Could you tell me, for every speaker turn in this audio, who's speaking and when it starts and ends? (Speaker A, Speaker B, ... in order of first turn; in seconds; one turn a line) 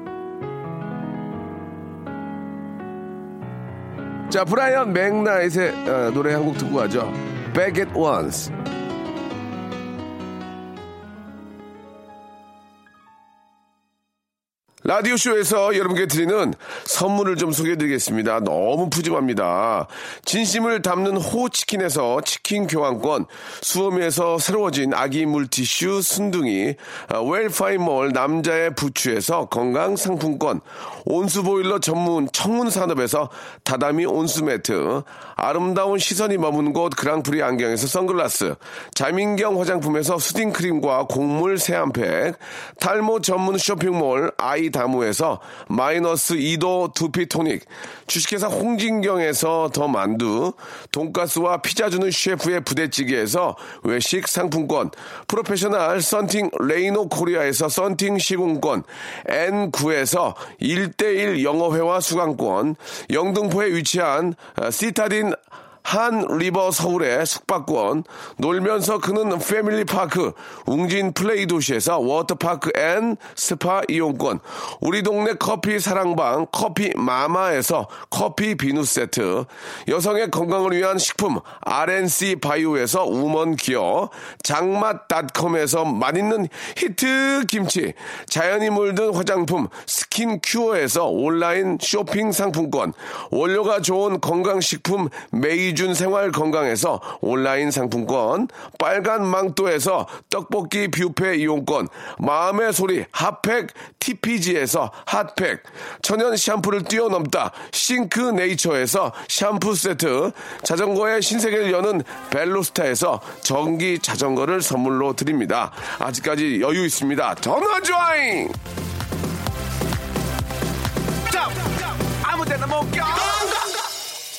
Speaker A: 4.3-8.5
Speaker A: 14.8-118.5
Speaker A: 122.1-123.6